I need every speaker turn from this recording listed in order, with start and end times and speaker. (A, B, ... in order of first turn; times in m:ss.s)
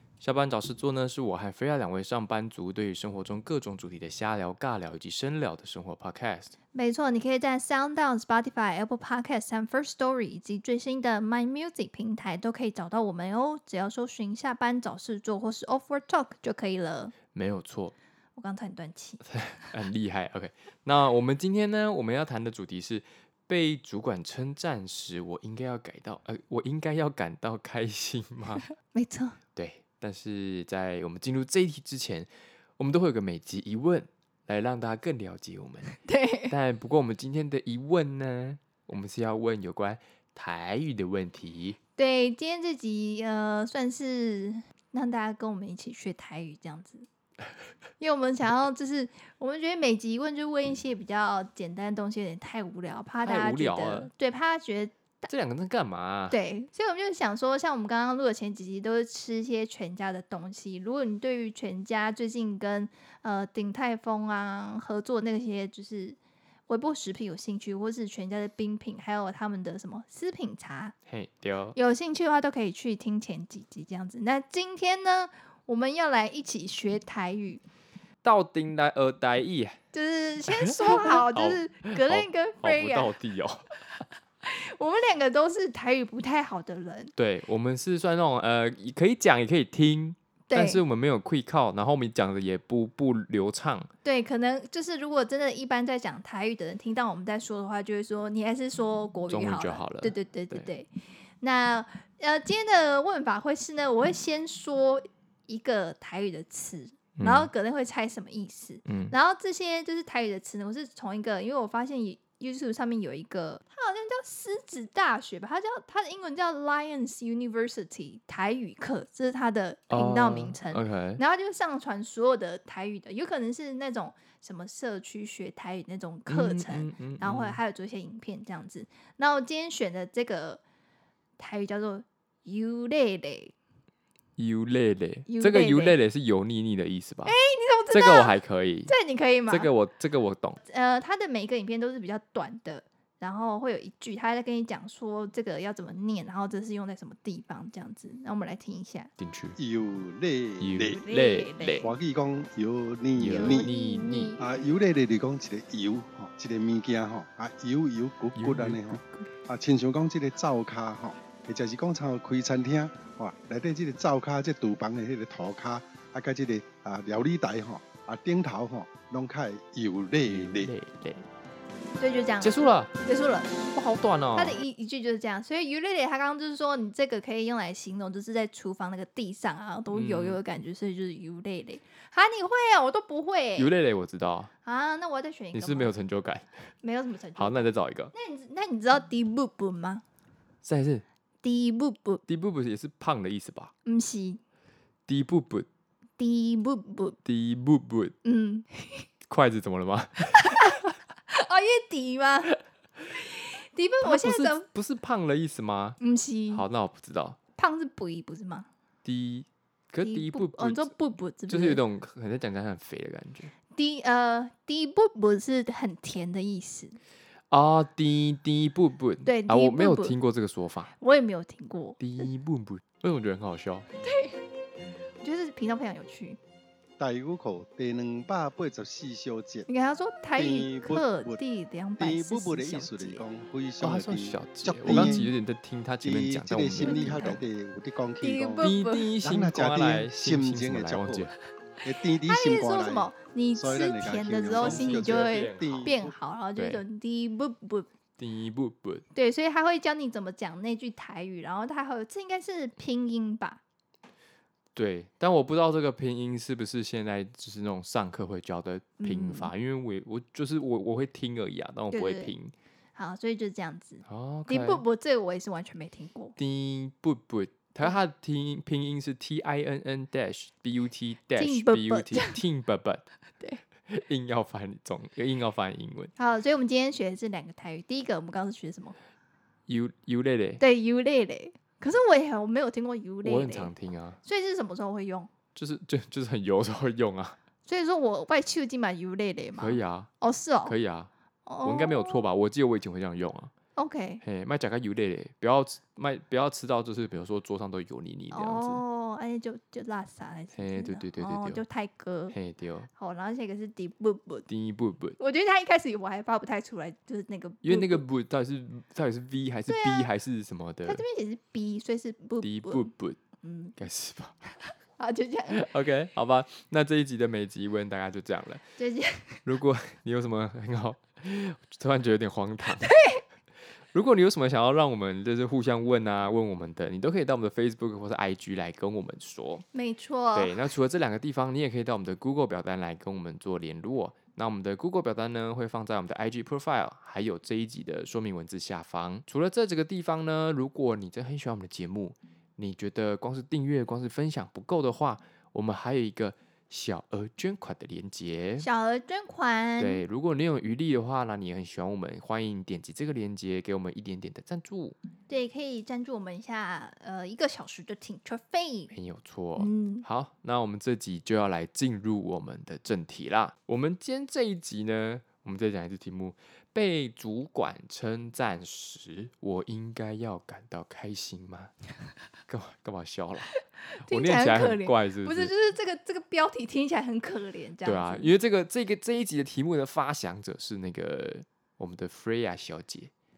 0:00.2-0:06.5 A
0:06.7-0:17.1 B
0:17.3-0:17.9 A
0:18.4-0:19.2 B
0:19.2-0:28.7 A
0:28.9-0:29.4 B
0:29.5-0:41.8 A
0:36.0-0:36.5 B
0:42.0-0:47.1 B
0:48.0-0:54.9 B
0:53.2-0:54.1 A
0:55.3-0:56.4 A
0:56.3-1:10.9 B
1:11.1-1:11.8 A
1:11.8-1:17.6 B
1:18.2-1:19.8 A
1:19.9-1:23.1 B
1:20.5-1:23.6 A
1:24.4-1:27.1 B
1:27.2-1:33.9 A
1:30.5-1:30.8 B
1:34.0-1:40.9 B
1:39.3-1:40.7 A
1:41.4-2:10.6 B
1:47.2-1:47.5 A
1:48.8-1:49.1 A
1:59.9-2:01.2 A
2:06.3-2:07.6 A
2:11.4-2:13.5 B
2:14.4-2:17.3 A
2:15.3-2:16.0 B
2:17.2-2:18.4 B
2:17.9-2:18.9 A
2:18.9-2:19.7 B
2:19.5-2:20.6 A
2:20.6-2:29.1 B
2:29.2-2:29.6 A
2:29.6-2:31.0 C
2:30.6-2:31.9 A
2:30.9-2:31.9 B
2:31.8-2:33.7 C
2:33.2-2:34.4 A
2:33.3-2:34.4 B
2:34.4-2:50.7 C
2:38.4-2:39.3 A
2:50.2-2:51.2 A
2:52.0-2:53.6 B
2:52.4-2:52.9 A
2:53.7-2:54.6 A
2:54.4-3:03.7 B
2:59.9-3:00.4 A
3:03.6-3:04.5 A
3:04.6-3:05.9 B
3:05.5-3:06.7 A
3:06.8-3:10.0 B
3:07.4-3:08.1 A
3:10.6-3:11.0 A
3:11.4-3:12.2 B
3:12.3-3:13.7 A
3:13.8-3:14.4 B
3:15.1-3:15.7 A
3:16.2-3:17.2 B
3:17.2-3:18.1 A
3:18.2-3:19.0 B
3:19.3-3:20.8 A
3:20.3-3:22.6 B
3:23.1-3:24.6 B
3:24.0-3:26.0 A
3:26.0-3:26.6 B
3:26.5-3:27.4 A
3:27.6-3:28.7 B
3:29.0-3:30.9 A
3:30.0-3:31.8 B
3:31.5-3:33.5 A
3:33.7-3:37.0 B
3:37.5-3:40.9 A
3:39.2-3:40.2 B
3:41.0-3:42.3 B
3:42.0-3:43.9 A
3:44.0-3:44.4 B
3:45.2-3:46.4 B
3:47.0-3:49.7 C
3:49.7-3:53.2 B
3:50.4-3:51.4 C
3:52.0-3:55.3 C
3:53.8-3:57.4 A
3:54.9-3:55.3 B
3:56.0-4:01.3 C
3:56.8-3:57.4 B
3:58.2-3:59.1 B
3:58.6-4:01.3 A
4:01.8-4:06.1 C
4:02.1-4:07.9 B
4:04.5-4:06.0 A
4:06.6-4:06.8 A
4:08.2-4:09.0 A
4:09.1-4:13.6 B
4:14.7-4:22.5 A
4:19.0-4:19.5 B
4:21.9-4:22.3 B
4:23.0-4:26.3 B
4:24.0-4:24.8 A
4:26.4-4:33.0 A
4:31.4-4:32.4 B
4:33.9-4:36.1 A
4:36.2-4:39.0 B
4:39.7-4:40.6 A
4:40.6-4:43.7 B
4:43.2-4:44.2 A
4:44.2-4:45.3 B
4:45.5-4:47.4 A
4:47.6-4:50.7 B
4:49.6-4:50.1 A
4:50.6-4:51.1 A
4:51.4-4:52.2 B
4:51.6-4:53.5 A
4:53.8-4:54.2 B
4:54.2-4:58.8 A
4:58.3-5:02.3 B
5:00.5-5:01.6 A
5:02.3-5:02.9 A
5:03.0-5:04.5 B
5:04.5-5:05.2 A
5:05.2-5:08.0 B
5:07.6-5:11.0 A
5:09.7-5:10.1 B
5:10.8-5:12.9 B
5:12.4-5:13.2 A
5:13.4-5:13.8 B
5:13.8-5:14.4 A
5:15.0-5:15.6 B
5:15.5-5:18.7 A
5:18.8-5:19.4 B
5:19.4-5:22.9 A
5:22.8-5:23.2 B
5:23.9-5:29.6 A
5:29.7-5:30.6 B
5:30.3-5:48.7 A
5:48.6-5:50.0 B
5:49.8-5:55.0 A
5:55.3-5:58.9 B
5:58.9-6:11.7 A
5:59.6-6:00.0 B
6:12.5-6:15.5 A
6:13.5-6:18.3 B
6:17.8-6:23.1 A